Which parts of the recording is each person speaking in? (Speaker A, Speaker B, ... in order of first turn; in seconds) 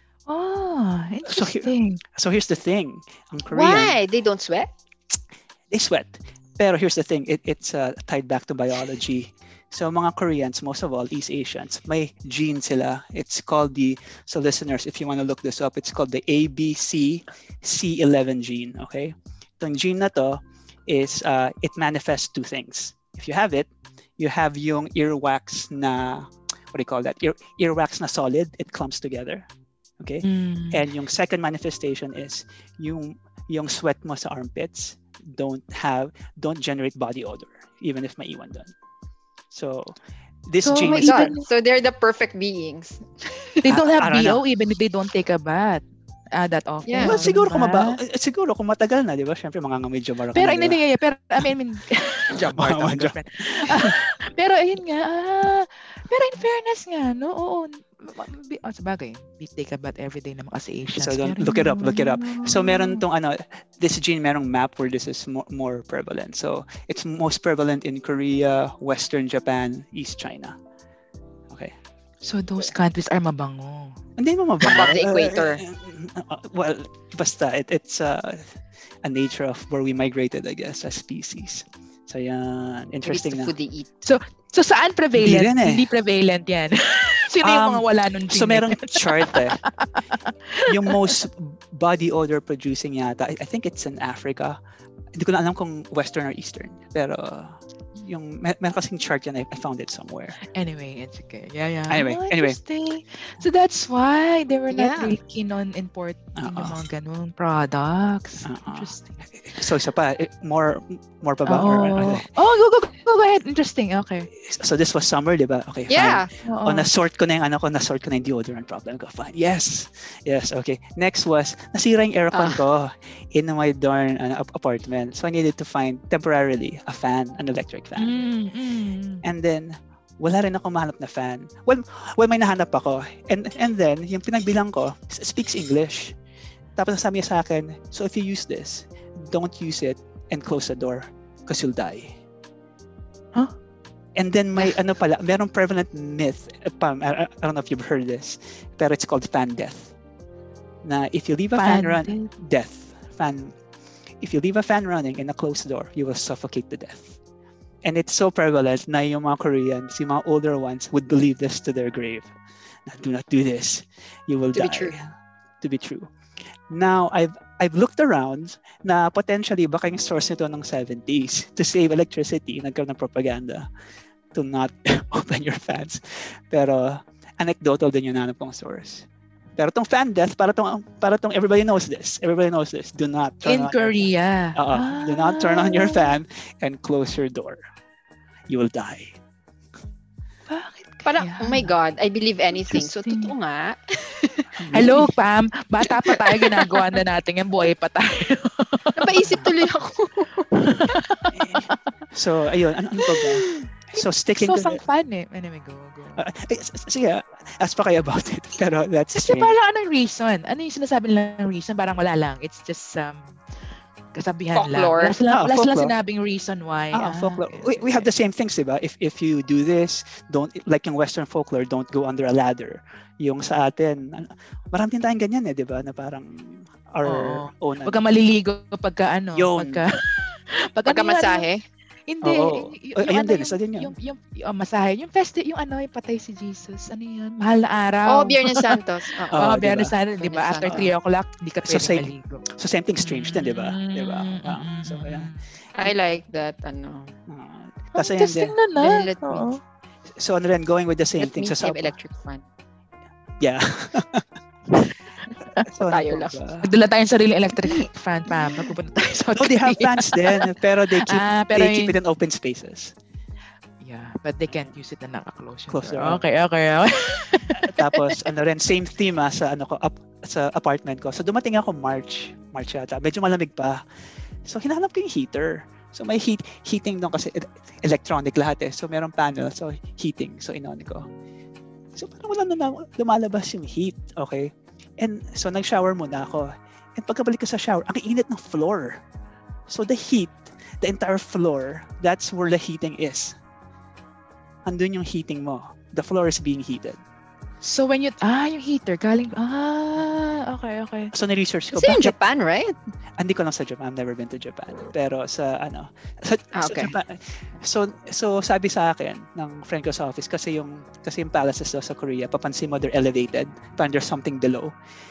Speaker A: 0.3-2.0, 30.2-30.8, 40.6-41.5, 43.6-48.0, 50.3-63.0, 72.2-74.0, 84.0-91.2, 100.5-109.2, 111.5-114.3, 116.4-116.9, 128.0-129.2, 151.6-152.3, 183.4-186.1, 190.5-191.7, 192.7-193.3, 194.7-199.5, 200.5-201.7, 203.9-206.2, 209.1-213.3, 214.1-218.1, 227.0-231.4, 232.1-238.8, 239.3-242.4, 243.0-245.4, 247.9-249.6, 256.6-262.0, 263.8-268.2, 297.6-301.1
Speaker B: 1.2-4.0, 5.7-29.5, 30.0-38.7, 39.5-40.0, 40.5-41.3, 43.6-44.4, 47.0-50.8, 52.4-54.0, 61.0-70.6, 71.5-71.7, 74.2-83.5, 85.2-85.9, 87.4-89.6, 90.7-94.6, 95.1-100.4, 101.9-102.6, 106.3-106.8, 108.4-112.3, 114.3-128.2, 129.2-136.2, 136.8-142.1, 144.2-149.9, 150.8-153.6, 154.2-157.2, 157.8-162.3, 162.8-165.1, 165.6-166.1, 166.7-173.7, 174.3-179.1, 179.6-183.9, 184.5-187.6, 188.5-189.2, 194.6-195.1, 201.3-204.8, 206.2-209.5, 215.3-215.9, 216.9-228.0, 229.3-229.8, 232.2-233.9, 239.3-239.9, 240.6-240.9, 241.6-245.3, 247.3-248.5, 250.2-251.9, 253.4-254.8, 255.6-256.7, 259.3-262.9, 265.7-266.2, 267.5-273.8, 274.4-281.1, 281.9-289.0, 289.7-293.3, 294.6-297.0, 301.1-302.2, 303.2-314.7
Speaker C: 3.5-4.7, 40.9-43.6, 46.9-47.3, 74.6-75.6, 83.0-83.9, 104.7-105.2, 115.9-116.3, 122.3-122.6, 164.5-164.9, 191.0-194.6, 196.1-196.8, 199.0-201.0, 214.5-215.2, 230.8-231.6, 238.1-239.5, 240.2-240.9, 245.8-247.1, 248.8-249.5, 251.2-252.4, 255.8-256.4, 301.7-302.7, 306.5-306.9